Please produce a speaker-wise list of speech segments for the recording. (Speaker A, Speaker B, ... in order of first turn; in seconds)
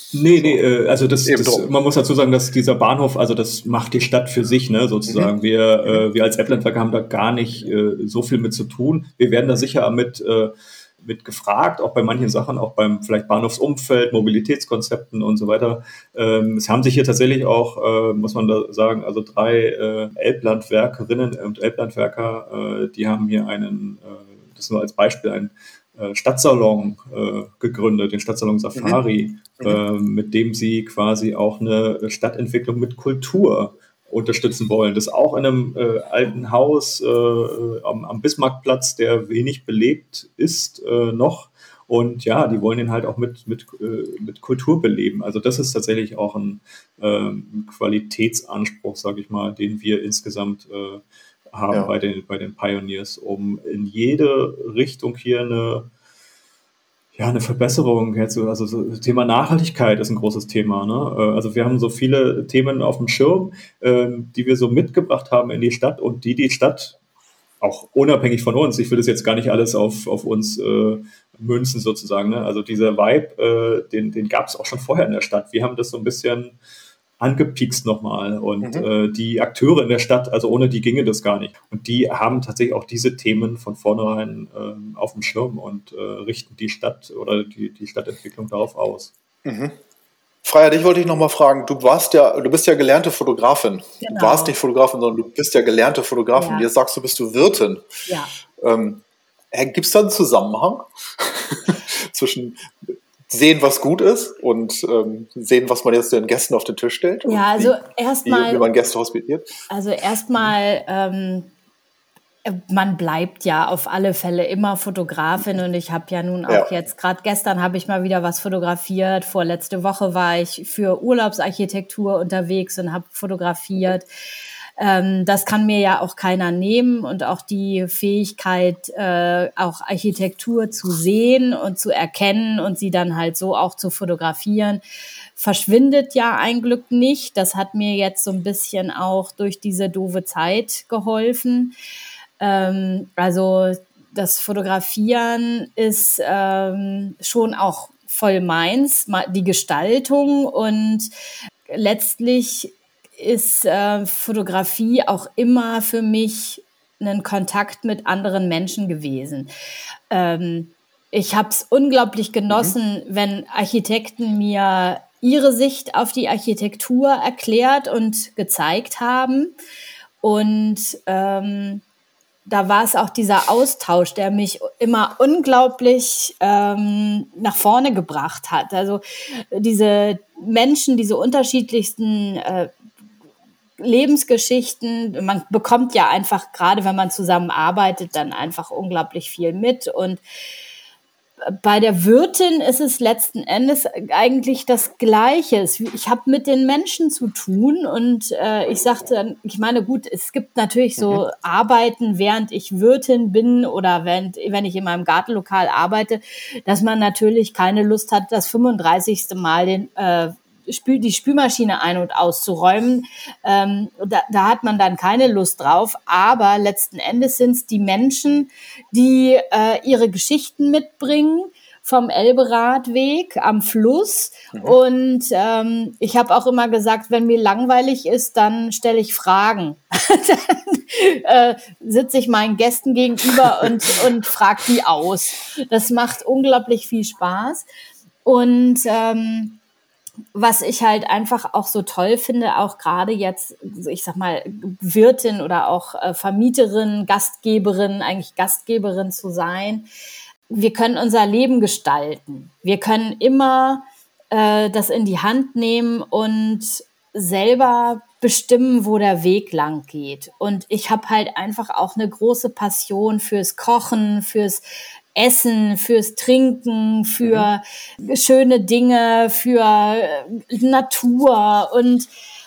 Speaker A: 0.1-55.9, 57.2-67.0, 67.6-76.5, 77.2-89.1
Speaker B: 1.2-1.7, 5.1-5.3, 78.6-78.9, 89.5-89.8, 90.4-97.8, 98.6-109.5, 162.5-162.8, 201.0-201.2, 267.2-267.5
Speaker C: 94.0-94.6, 96.4-96.7, 98.1-98.3, 107.2-108.7, 109.7-111.5, 112.5-124.1, 124.8-134.8, 135.4-141.7, 142.4-151.1, 151.7-159.5, 160.1-169.5, 170.2-171.8, 172.5-182.7, 183.8-190.2, 191.4-237.7, 238.2-239.6, 240.3-249.9, 250.5-264.6, 265.1-272.1